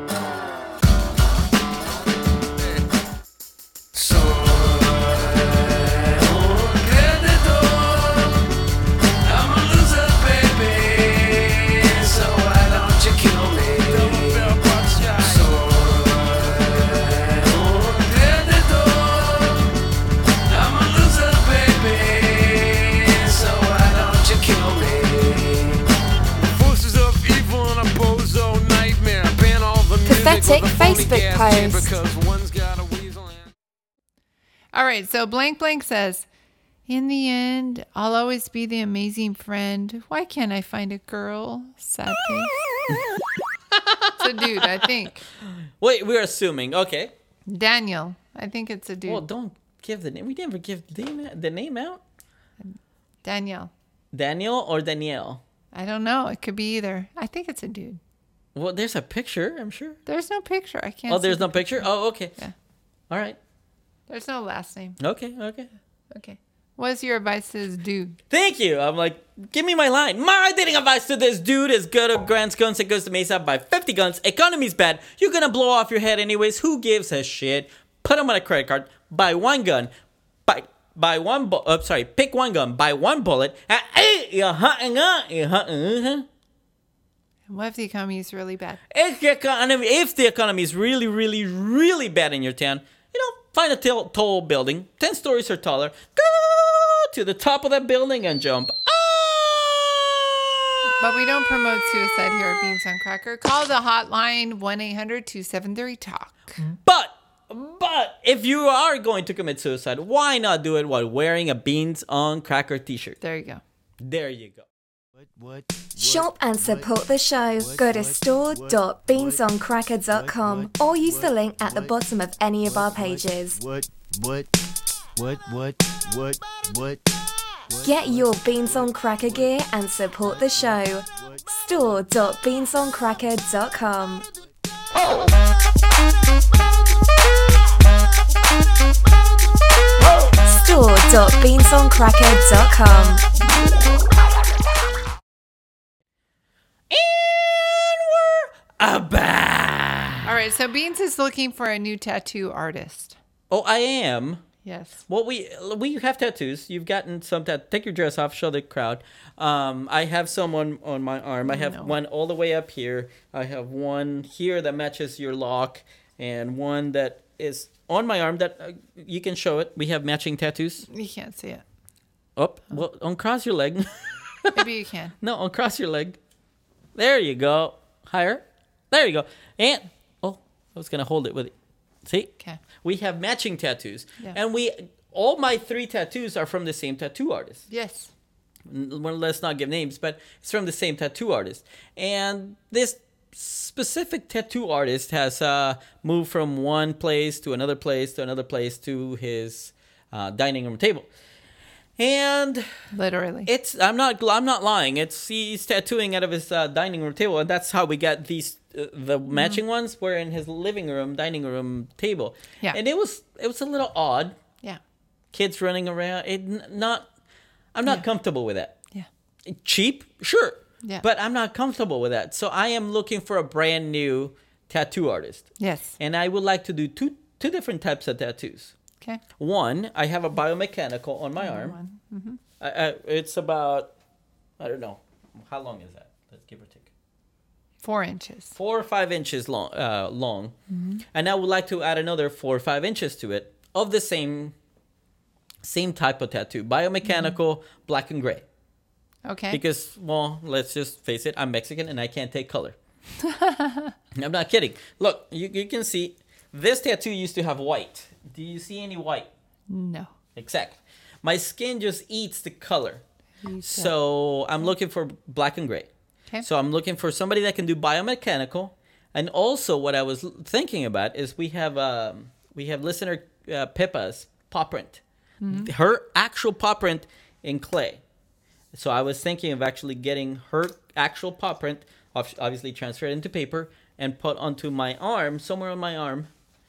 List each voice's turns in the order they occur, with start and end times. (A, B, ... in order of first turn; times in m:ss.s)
0:03.9-0:08.3 A
0:09.2-0:19.6 A
0:20.5-0:25.8 A
0:26.5-0:33.4 A
0:30.0-0:32.0 B
0:34.7-0:36.2 C
0:36.9-0:42.6 C
0:43.7-0:47.1 D
0:44.2-0:45.2 C
0:47.5-0:49.2 C
0:49.0-0:52.0 D
0:52.6-0:53.7 C
0:54.1-0:55.4 D
0:55.7-0:58.0 C
0:58.5-1:00.0 D
1:00.0-1:02.5 C
1:01.1-1:02.4 D
1:03.1-1:03.4 D
1:04.1-1:05.0 C
1:05.0-1:05.7 D
1:06.1-1:08.2 C
1:08.3-1:19.9 D
1:20.4-1:26.3 D
1:27.5-1:28.8 C
1:28.9-1:42.4 D
1:41.0-1:46.6 C
1:46.6-1:53.2 D
1:53.2-1:53.6 C
1:54.0-1:54.6 D
1:55.2-1:57.0 E
1:56.0-2:03.6 B
1:57.6-2:02.0 E
2:02.6-2:04.5 E
2:05.2-2:07.2 E
2:07.7-2:09.6 E
2:07.8-2:14.2 B
2:10.2-2:12.1 E
2:12.9-2:13.2 E
2:20.4-2:23.2 B
2:26.9-2:30.3 D
2:30.2-2:33.2 C
2:33.5-2:34.4 D
2:34.6-2:35.0 C
2:35.1-2:50.8 D
2:41.4-2:41.9 C
2:50.9-2:51.6 C
2:52.4-2:54.6 D
2:54.5-2:55.1 C
2:55.2-2:56.2 D
2:56.9-3:01.5 D
3:02.0-3:07.6 D
3:07.7-3:08.1 C
3:08.6-3:21.1 D
3:22.0-3:22.7 D
3:22.9-3:23.5 C
3:23.4-3:34.4 D
3:29.3-3:29.6 C
3:35.3-3:37.1 D
3:37.7-3:38.8 D
3:39.4-3:48.7 D
3:45.6-3:46.0 C
3:49.4-3:51.8 D
3:51.4-3:52.4 C
3:52.6-3:53.9 D
3:54.6-3:56.9 D
3:57.8-3:58.5 C
3:58.5-4:00.5 D
4:00.7-4:01.0 C
4:01.1-4:04.5 D
4:05.6-4:08.4 D
4:07.0-4:07.4 C
4:09.2-4:09.6 C
4:09.5-4:12.8 D
4:13.2-4:13.9 C
4:14.1-4:19.3 D
4:19.7-4:20.1 C
4:20.4-4:23.0 D
4:23.4-4:23.9 C
4:23.6-4:25.9 D
4:26.4-4:38.0 D
4:35.4-4:35.7 C
4:38.7-4:46.3 D